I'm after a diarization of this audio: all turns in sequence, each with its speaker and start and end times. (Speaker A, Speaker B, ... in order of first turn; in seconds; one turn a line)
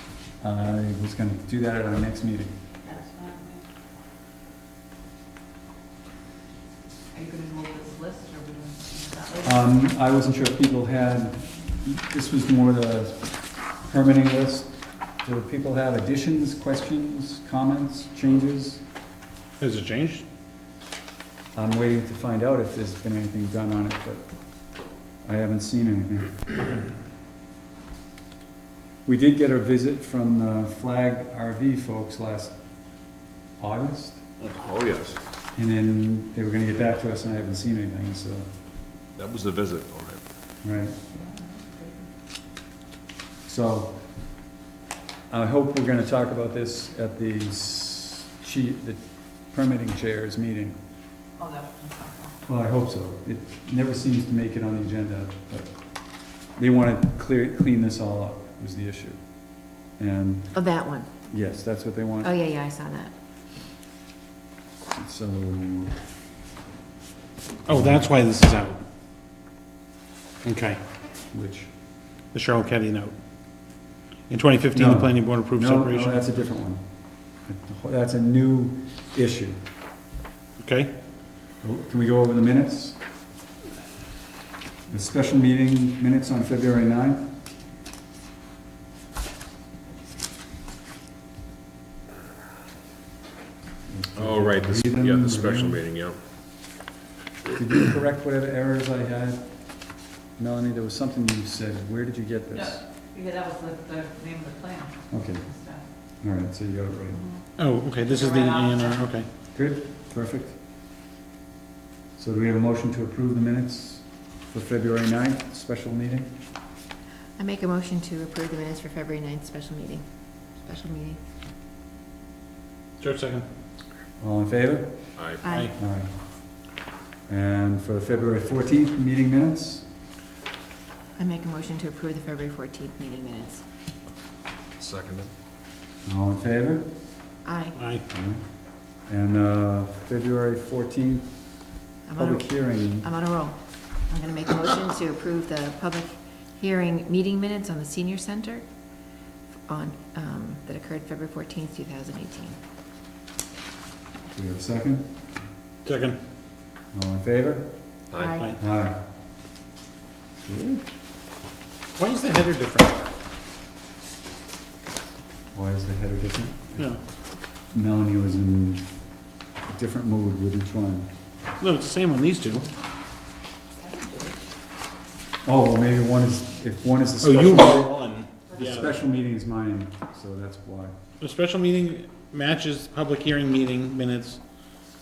Speaker A: 0.4-2.5
Speaker B: 7.2-9.2
Speaker A: 9.3-13.3
Speaker A: 13.8-18.8
Speaker C: 19.6-20.2
Speaker A: 21.6-24.2
Speaker A: 25.2-26.9
Speaker A: 29.1-32.5
Speaker A: 33.6-34.2
Speaker D: 34.4-35.2
Speaker A: 35.6-38.5
Speaker D: 39.2-40.2
Speaker A: 40.6-41.0
Speaker A: 43.5-44.0
Speaker A: 45.3-49.0
Speaker A: 49.5-50.8
Speaker A: 52.5-55.8
Speaker A: 56.6-59.2
Speaker A: 60.0-60.6
Speaker E: 60.5-61.1
Speaker A: 61.3-62.4
Speaker E: 62.2-63.1
Speaker A: 65.0-66.0
Speaker C: 67.7-68.8
Speaker A: 67.7-68.0
Speaker C: 70.4-70.8
Speaker A: 71.3-71.7
Speaker C: 72.3-73.2
Speaker C: 74.3-76.2
Speaker A: 74.7-76.8
Speaker A: 77.5-79.6
Speaker C: 80.6-80.9
Speaker A: 81.6-83.0
Speaker A: 84.9-87.3
Speaker A: 93.9-95.8
Speaker D: 94.2-96.2
Speaker A: 97.5-99.4
Speaker A: 100.4-102.9
Speaker B: 103.2-104.5
Speaker A: 105.1-105.5
Speaker A: 106.2-107.3
Speaker C: 107.6-109.3
Speaker A: 109.5-110.6
Speaker A: 112.2-116.3
Speaker E: 117.4-120.0
Speaker E: 120.6-121.2
Speaker C: 123.0-123.5
Speaker A: 124.2-125.0
Speaker E: 125.4-125.7
Speaker A: 125.8-126.1
Speaker A: 127.3-129.8
Speaker E: 131.2-133.6
Speaker D: 134.8-135.3
Speaker A: 136.1-136.9
Speaker E: 137.4-137.8
Speaker C: 137.8-138.0
Speaker A: 138.1-138.4
Speaker A: 139.1-141.3
Speaker E: 142.1-142.5
Speaker A: 142.2-143.1
Speaker E: 143.0-148.7
Speaker E: 149.7-152.6
Speaker A: 154.3-155.1
Speaker C: 155.8-156.2
Speaker A: 156.9-157.7
Speaker D: 158.1-158.4
Speaker E: 158.2-158.5
Speaker A: 158.6-159.0
Speaker A: 160.5-160.9
Speaker C: 162.0-163.0
Speaker A: 165.5-166.9
Speaker A: 167.7-168.9
Speaker A: 169.7-171.1
Speaker C: 171.6-172.7
Speaker E: 173.8-174.3
Speaker A: 175.4-178.0
Speaker C: 177.2-178.9
Speaker A: 178.5-181.0
Speaker C: 181.2-184.4